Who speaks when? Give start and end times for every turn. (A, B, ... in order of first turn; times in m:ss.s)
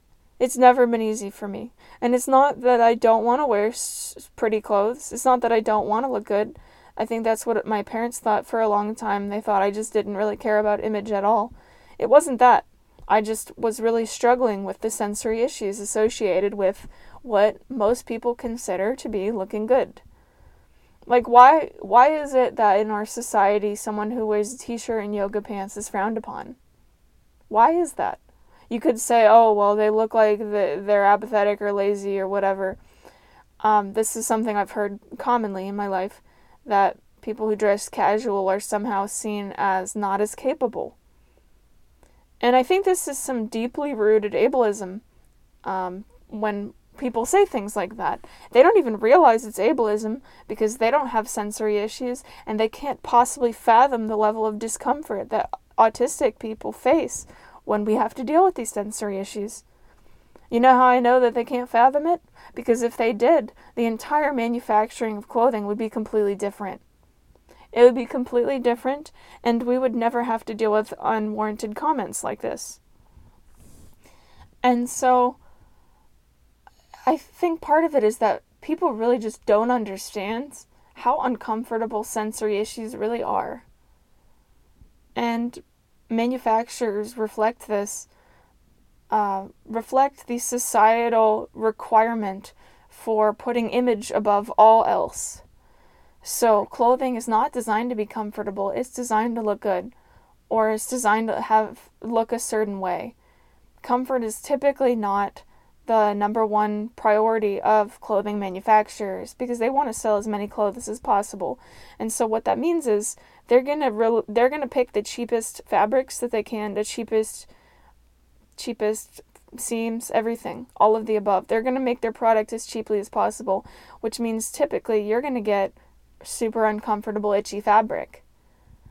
0:00.4-0:20.0 A
0:21.1-0:26.6 A
0:27.5-0:32.8 A
0:33.6-0:41.0 A
0:42.4-0:45.0 A
0:45.6-0:59.6 A
1:00.5-1:06.8 A
1:07.7-1:12.8 A
1:14.6-1:15.4 A
1:17.0-1:23.6 A
1:25.2-1:28.1 A
1:29.1-1:35.4 A
1:36.2-1:39.9 A
1:40.5-1:43.2 A
1:43.8-1:57.5 A
1:58.6-2:08.2 A